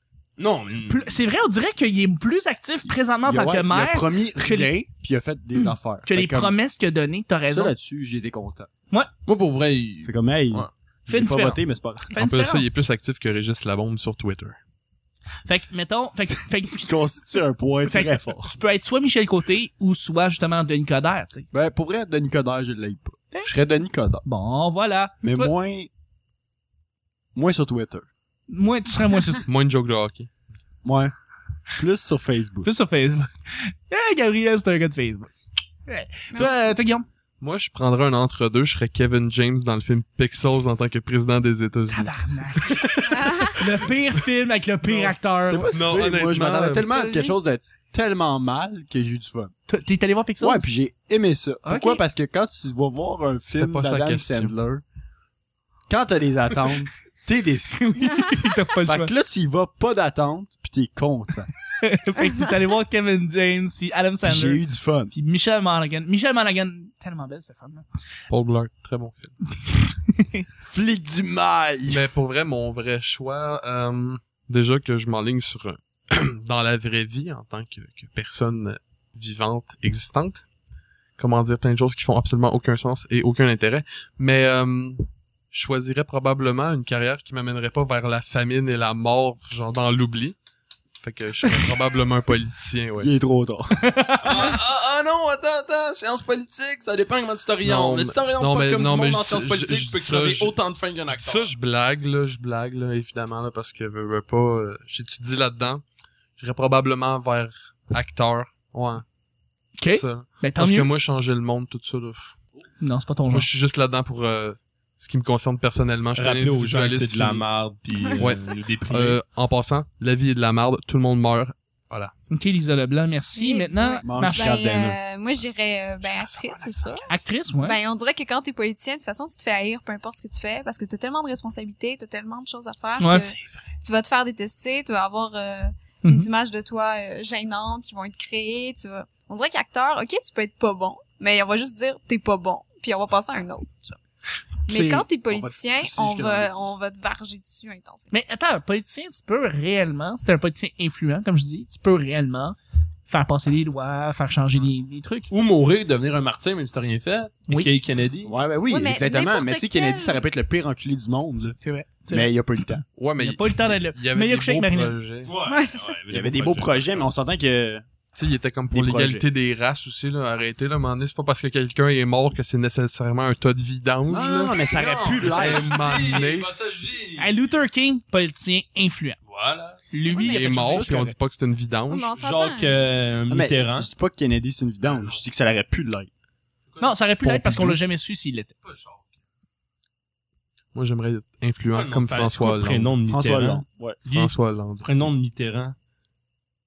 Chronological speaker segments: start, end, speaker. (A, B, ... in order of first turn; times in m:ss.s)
0:00.4-0:01.2 A
0:00.9-0:04.7 B
0:03.2-0:06.5 C
0:06.0-0:07.7 B
0:07.5-0:08.7 C
0:09.2-0:10.7 A
0:10.0-0:12.1 C
0:11.1-0:12.7 B
0:12.1-0:14.6 D
0:15.4-0:17.0 B
0:16.8-0:18.5 C
0:17.8-0:21.5 B
0:21.5-0:24.2 C
0:24.2-0:25.5 B
0:25.2-0:25.9 C
0:27.3-0:28.1 C
0:28.5-0:29.4 B
0:29.4-0:30.3 D
0:30.8-0:31.1 C
0:31.8-0:32.7 C
0:32.6-0:35.3 B
0:35.9-0:37.0 B
0:36.3-0:36.6 E
0:37.4-0:43.5 D
0:41.9-0:45.7 B
0:43.1-0:43.6 E
0:44.9-0:49.5 C
0:45.7-0:46.8 D
0:46.8-0:47.4 E
0:49.7-0:50.7 B
0:50.4-0:54.8 C
0:51.6-0:52.0 B
0:53.5-0:54.5 D
0:55.9-1:01.5 C
0:57.8-0:59.1 B
1:01.8-1:07.8 B
1:04.2-1:05.1 C
1:08.3-1:09.3 D
1:10.1-1:10.4 B
1:10.6-1:12.0 C
1:11.9-1:20.4 D
1:21.2-1:30.4 D
1:31.0-1:33.1 D
1:33.0-1:33.9 C
1:33.8-1:34.6 B
1:34.2-1:41.5 A
1:37.6-1:40.6 D
1:41.1-1:45.8 D
1:46.4-1:49.0 D
1:49.8-1:50.9 B
1:49.9-1:52.4 D
1:52.8-1:53.5 B
1:53.3-1:57.4 D
1:56.1-1:59.2 A
1:58.2-2:02.1 D
2:02.3-2:04.5 B
2:03.4-2:07.1 E
2:04.0-2:05.0 C
2:06.0-2:07.1 D
2:07.1-2:07.8 B
2:07.6-2:23.9 E
2:13.0-2:13.4 B
2:16.0-2:16.3 B
2:24.7-2:25.0 B
2:24.7-2:28.1 E
2:25.3-2:26.6 C
2:28.1-2:32.6 B
2:33.1-2:35.3 B
2:35.3-2:38.3 A
2:38.2-2:41.6 C
2:38.7-2:40.2 E
2:41.6-2:42.3 B
2:42.1-2:42.8 C
2:42.9-2:45.3 D
2:43.2-2:45.0 B
2:45.2-2:47.1 A
2:45.4-2:46.0 E
2:46.1-2:47.8 C
2:48.1-2:56.5 D
2:48.7-2:49.2 C
2:54.1-2:55.9 C
2:54.7-2:57.3 A
2:57.2-2:59.2 B
2:59.2-2:59.8 A
2:59.9-3:01.1 B
3:00.1-3:00.5 E
3:00.1-3:02.2 D
3:00.5-3:01.1 C
3:01.9-3:02.8 E
3:02.1-3:03.9 A
3:03.3-3:06.1 C
3:04.8-3:05.2 A
3:06.7-3:07.0 A
3:06.8-3:08.5 B
3:07.2-3:07.6 D
3:07.4-3:07.8 C
3:08.6-3:09.1 A
3:10.7-3:13.0 D
3:11.7-3:15.7 A
3:13.1-3:14.0 C
3:14.1-3:14.9 D